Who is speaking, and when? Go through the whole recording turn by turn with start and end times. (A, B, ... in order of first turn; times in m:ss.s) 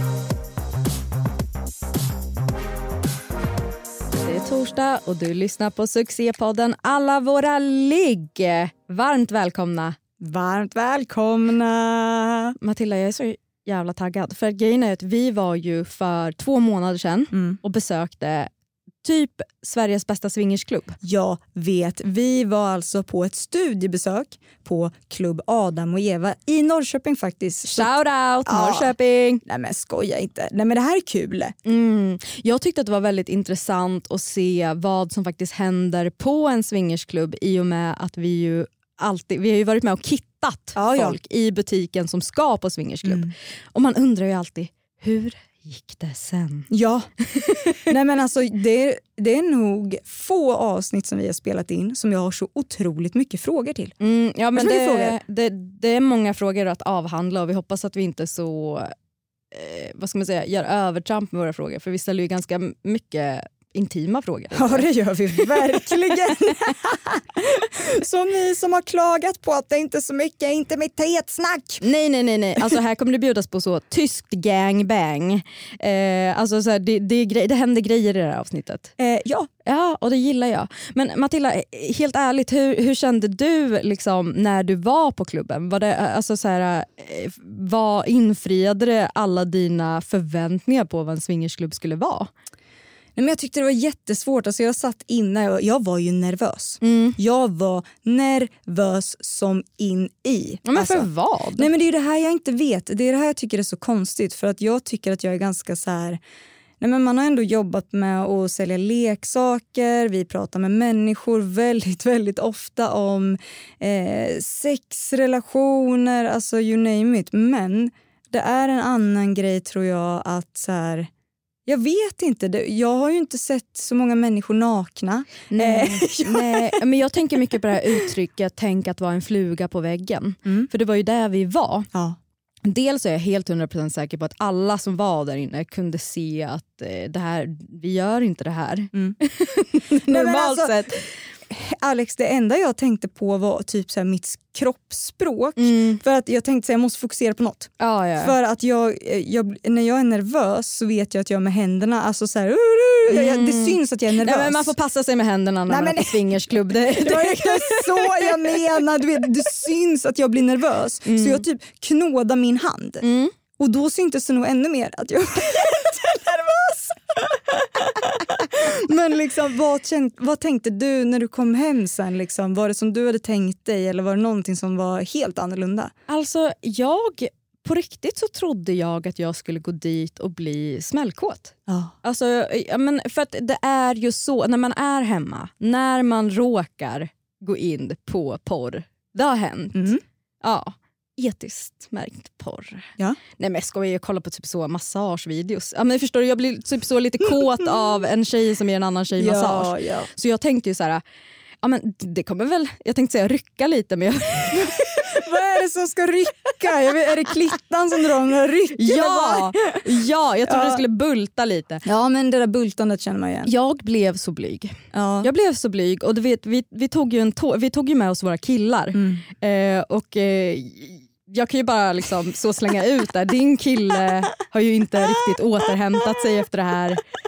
0:04.2-0:10.0 A
0:10.2-0:12.5 B
0:12.6-0:18.5 A
0:17.3-0:17.6 B
0:19.0-0:21.0 A
0:21.0-0:27.9 B
0:27.6-0:29.4 A
0:28.4-0:31.6 B
0:31.6-0:46.7 A
0:40.8-0:41.2 B
0:43.0-0:43.3 B
0:46.7-0:47.1 B
0:47.2-0:47.8 A
0:47.9-0:54.0 B
0:54.0-0:58.9 A
0:54.5-0:55.2 B
0:59.5-1:05.9 A
1:04.5-1:11.8 B
1:11.8-1:18.9 A
1:19.0-1:19.5 B
1:19.6-1:32.3 A
1:33.2-1:46.2 B
1:36.8-1:37.2 A
1:40.6-1:41.7 A
1:46.8-2:01.1 B
2:01.7-2:06.8 B
2:05.5-2:11.9 A
2:12.6-2:21.1 A
2:20.0-2:20.7 B
2:21.5-2:34.7 B
2:25.6-2:26.0 A
2:27.8-2:28.3 A
2:33.1-2:38.3 A
2:35.7-2:43.0 B
2:41.0-2:41.4 A
2:43.0-2:43.3 A
2:43.6-2:55.9 B
2:56.1-3:09.9 A
3:01.7-3:01.9 B
3:09.7-3:10.0 B
3:10.4-3:21.0 A
3:19.2-3:20.1 B
3:21.6-3:24.8 A
3:24.8-3:29.8 B
3:28.8-3:31.8 A
3:30.5-3:30.8 B
3:31.8-3:33.5 B
3:33.4-3:47.0 A
3:34.9-3:35.3 B
3:38.9-3:39.2 B